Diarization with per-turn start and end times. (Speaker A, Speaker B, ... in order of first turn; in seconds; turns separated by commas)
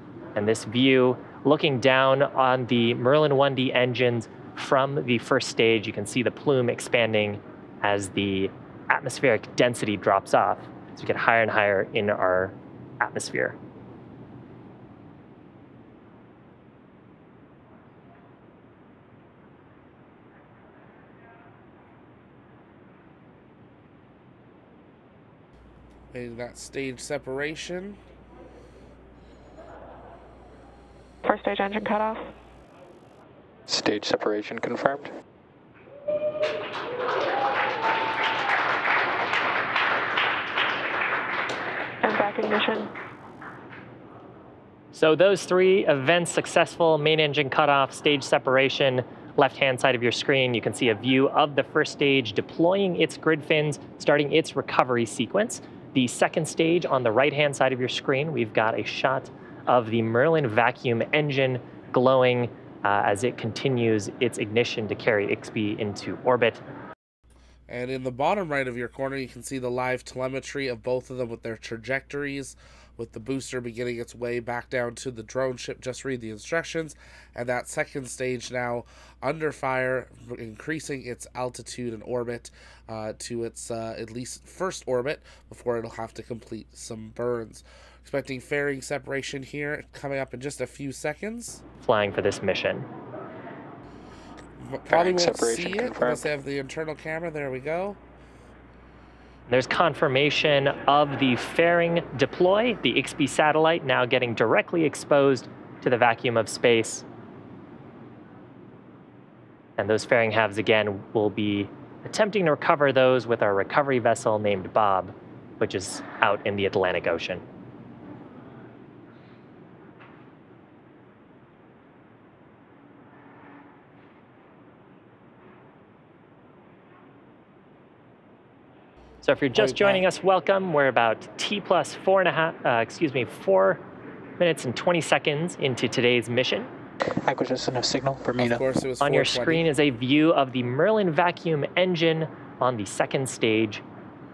Speaker A: 0.3-13.6, Speaker B: 26.1-28.0, Speaker C: 31.2-32.3, Speaker D: 33.7-35.1, Speaker C: 42.0-42.9, Speaker A: 44.9-66.6, Speaker B: 67.7-91.6, Speaker A: 91.8-92.9, Speaker B: 94.6-98.0, Speaker D: 94.9-96.3, Speaker A: 99.5-107.0, Speaker A: 109.8-117.4, Speaker A: 129.2-133.8, Speaker B: 129.5-130.0, Speaker A: 134.4-136.7, Speaker D: 137.2-138.6, Speaker B: 138.4-139.7, Speaker A: 139.0-143.8